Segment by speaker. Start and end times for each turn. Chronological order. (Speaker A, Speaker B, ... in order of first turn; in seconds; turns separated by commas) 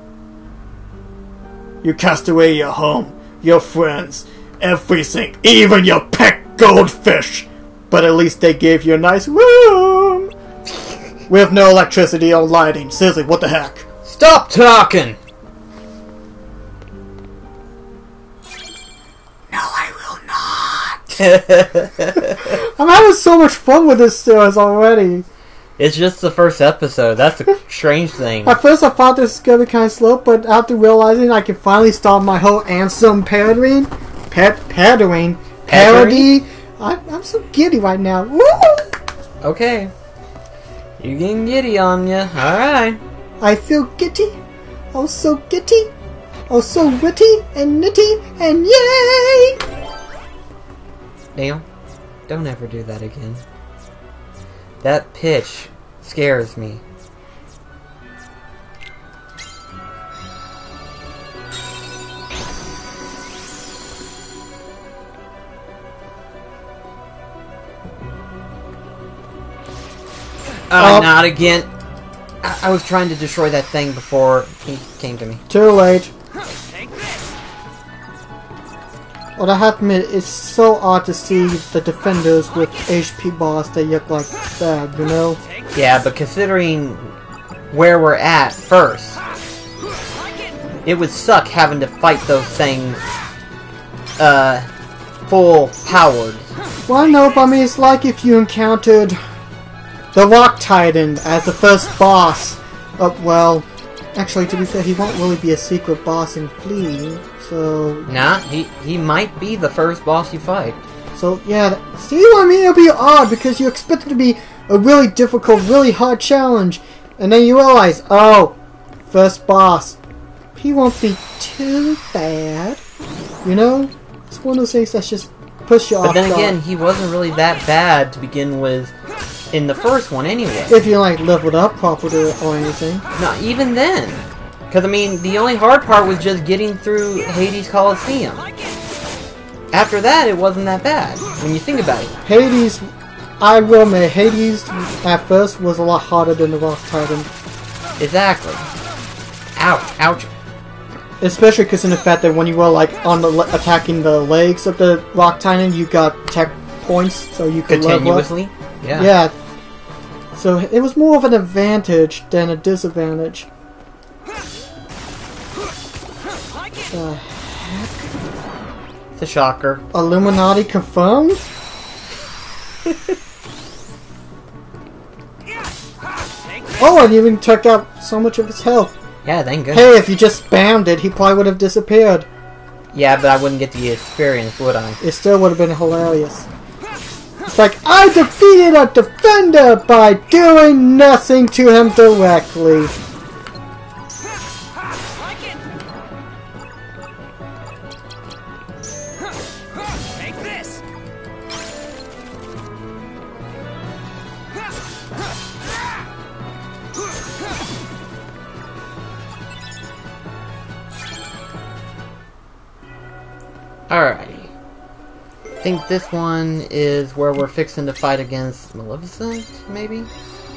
Speaker A: 1.8-10.3, Speaker A: 11.3-13.9, Speaker B: 14.0-15.2, Speaker A: 19.5-21.2, Speaker B: 21.2-22.5, Speaker A: 22.4-25.2, Speaker B: 25.8-28.6, Speaker A: 28.4-39.0, Speaker B: 35.7-36.3, Speaker B: 39.4-39.9, Speaker B: 41.0-43.0, Speaker A: 43.4-44.4, Speaker A: 44.9-45.9, Speaker A: 46.5-49.6, Speaker B: 51.3-51.6, Speaker B: 52.3-53.4, Speaker B: 54.8-56.8, Speaker B: 70.7-71.7, Speaker A: 70.8-71.1, Speaker B: 72.4-75.4, Speaker A: 75.5-76.1, Speaker A: 79.4-85.4, Speaker B: 85.7-87.1, Speaker B: 87.7-89.2, Speaker B: 90.8-93.0, Speaker B: 94.2-94.7, Speaker B: 95.3-96.5, Speaker A: 96.9-99.2, Speaker A: 100.1-108.1, Speaker B: 108.1-110.8, Speaker A: 111.1-118.5, Speaker A: 119.1-120.0, Speaker A: 120.5-122.8, Speaker A: 123.4-126.6, Speaker B: 126.0-128.9, Speaker B: 129.5-130.8, Speaker A: 130.7-133.1, Speaker B: 133.2-138.5, Speaker B: 139.7-142.2, Speaker A: 142.2-142.9, Speaker A: 143.4-147.3, Speaker B: 148.0-148.7, Speaker B: 149.6-150.3, Speaker A: 151.2-158.3, Speaker B: 157.7-159.1, Speaker A: 158.9-159.3, Speaker A: 160.3-163.5, Speaker A: 166.9-168.1, Speaker B: 169.2-169.8, Speaker A: 169.9-171.4, Speaker A: 176.8-178.9, Speaker B: 179.2-179.9, Speaker A: 179.7-182.3, Speaker B: 182.9-185.0, Speaker A: 185.0-186.5, Speaker A: 187.4-192.9, Speaker B: 213.9-214.5, Speaker B: 215.6-220.1